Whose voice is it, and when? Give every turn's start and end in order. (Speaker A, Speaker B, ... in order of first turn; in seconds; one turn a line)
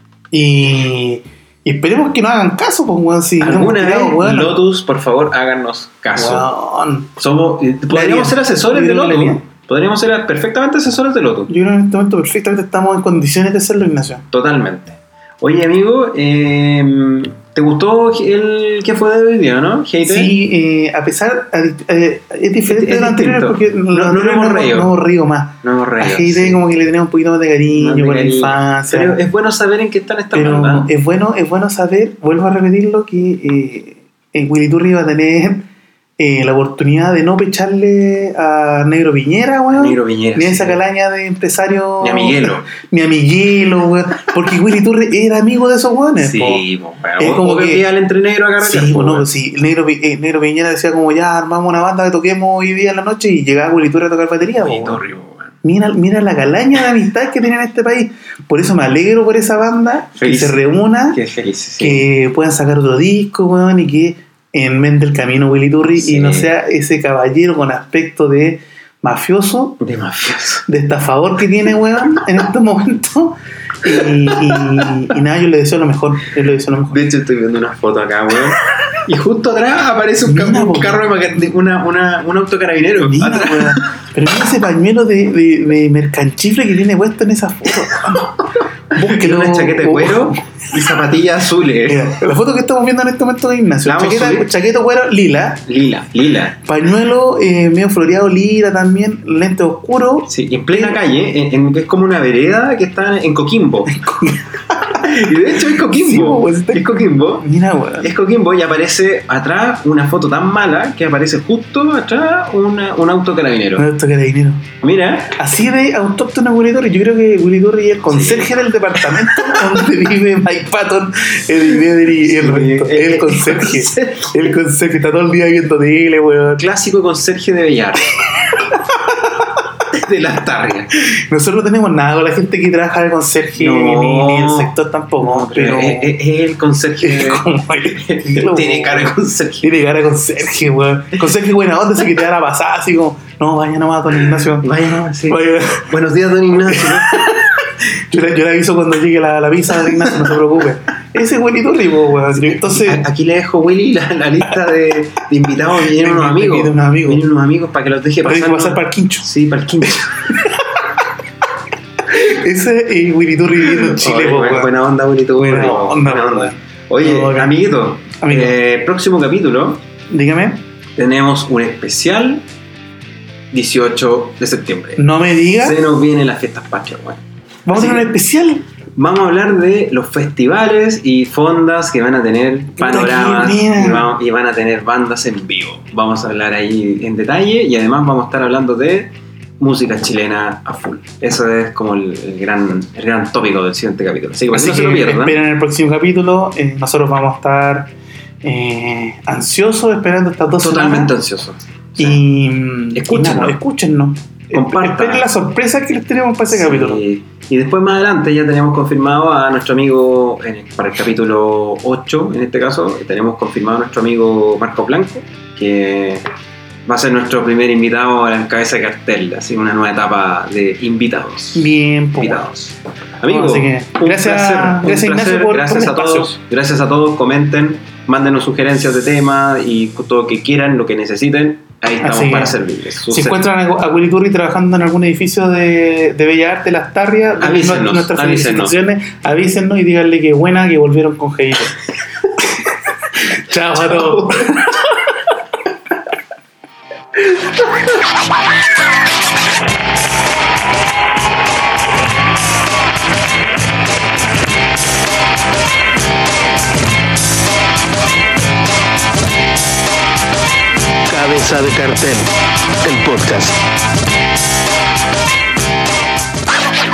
Speaker A: 0.3-4.6
Speaker B: 3.4-6.5
Speaker A: 6.1-7.1
Speaker B: 7.2-11.5
Speaker A: 7.9-9.4
Speaker A: 11.5-14.2
Speaker B: 14.3-20.3
Speaker A: 20.0-29.2
Speaker B: 22.7-24.9
Speaker B: 25.6-26.6
Speaker B: 27.7-30.9
Speaker A: 30.3-46.6
Speaker B: 39.7-40.8
Speaker B: 42.0-42.7
Speaker B: 46.2-49.3
Speaker A: 47.2-47.9
Speaker A: 48.6-55.0
Speaker B: 54.6-55.5
Speaker A: 55.6-61.2
Speaker B: 60.1-60.6
Speaker B: 61.1-62.0
Speaker A: 61.8-69.8
Speaker B: 65.9-66.5
Speaker B: 69.8-70.7
Speaker A: 70.7-77.0
Speaker B: 74.5-74.8
Speaker B: 76.9-83.9
Speaker A: 80.2-81.0
Speaker A: 83.0-88.3
Speaker B: 88.1-92.1
Speaker A: 88.9-90.4
Speaker A: 91.9-95.6
Speaker B: 93.8-94.5
Speaker B: 95.7-96.6
Speaker A: 96.6-101.0
Speaker B: 100.3-104.1
Speaker A: 104.0-108.1
Speaker B: 104.9-107.5
Speaker B: 108.0-113.9
Speaker A: 113.8-114.7
Speaker B: 114.8-115.4
Speaker A: 115.3-126.7
Speaker B: 118.1-118.5
Speaker B: 122.2-124.3
Speaker B: 126.6-128.1
Speaker A: 129.1-129.4
Speaker B: 129.9-130.9
Speaker A: 131.1-136.1
Speaker B: 133.6-139.7
Speaker A: 137.0-145.9
Speaker B: 144.6-147.4
Speaker A: 146.7-153.0
Speaker B: 152.3-160.3
Speaker A: 155.8-157.2
Speaker A: 158.2-159.3
Speaker A: 159.8-160.9
Speaker A: 162.0-164.7
Speaker B: 163.7-169.8
Speaker A: 165.4-167.6
Speaker A: 168.2-168.6
Speaker A: 170.1-170.6
Speaker B: 171.0-172.4
Speaker B: 173.5-175.0
Speaker A: 175.0-175.8
Speaker B: 175.6-178.1
Speaker A: 177.7-178.6
Speaker B: 178.9-195.4
Speaker A: 182.8-184.1
Speaker A: 194.5-197.9
Speaker A: 198.4-201.1
Speaker B: 200.6-202.2
Speaker A: 202.0-207.0
Speaker B: 202.9-203.6
Speaker B: 204.5-205.3
Speaker B: 206.5-216.2
Speaker B: 216.9-233.4
Speaker A: 221.5-222.5
Speaker A: 223.3-226.3
Speaker A: 232.0-232.6
Speaker A: 233.1-241.7
Speaker B: 237.4-238.8
Speaker A: 243.1-244.8
Speaker B: 243.9-244.2
Speaker C: 261.1-263.6